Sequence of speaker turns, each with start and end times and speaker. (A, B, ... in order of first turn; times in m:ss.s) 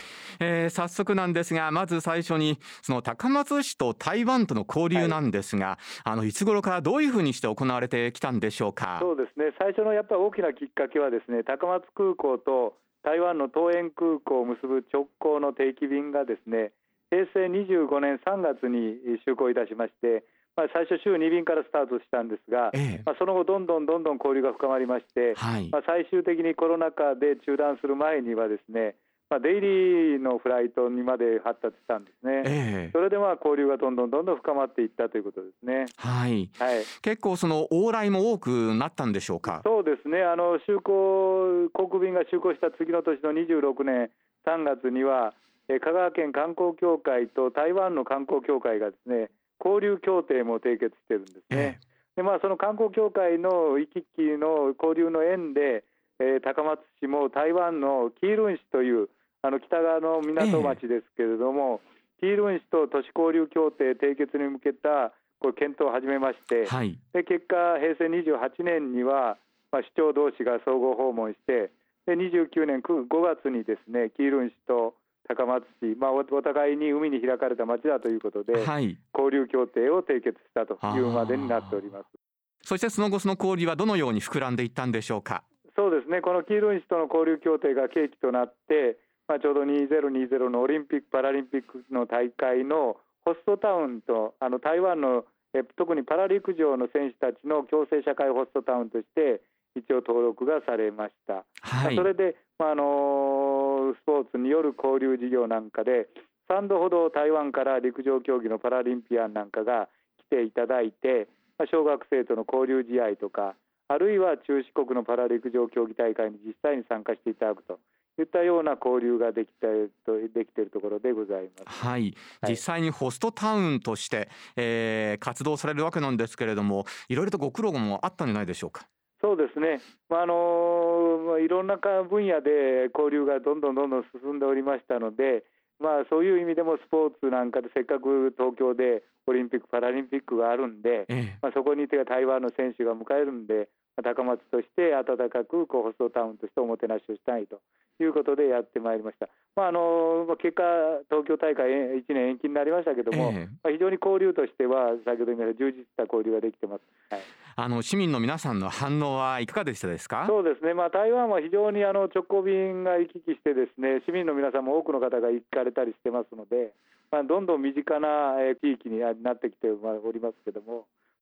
0:00.4-0:09.1 A
0:09.0-0:35.9 B
0:22.7-0:23.0 A
0:25.4-0:25.7 A
0:32.4-0:32.9 A
0:36.0-0:39.6 A
0:36.6-0:36.9 B
0:39.6-1:22.1 B
0:51.5-0:51.8 A
1:00.4-1:00.8 A
1:06.6-1:07.0 A
1:18.5-1:19.0 A
1:20.8-1:21.7 A
1:22.6-1:25.4 A
1:25.7-2:01.7 B
1:41.6-1:42.0 A
2:01.7-2:08.9 A
2:09.2-2:37.3 B
2:21.1-2:21.4 A
2:33.1-2:33.6 A
2:37.6-2:40.3 A
2:40.2-2:50.9 B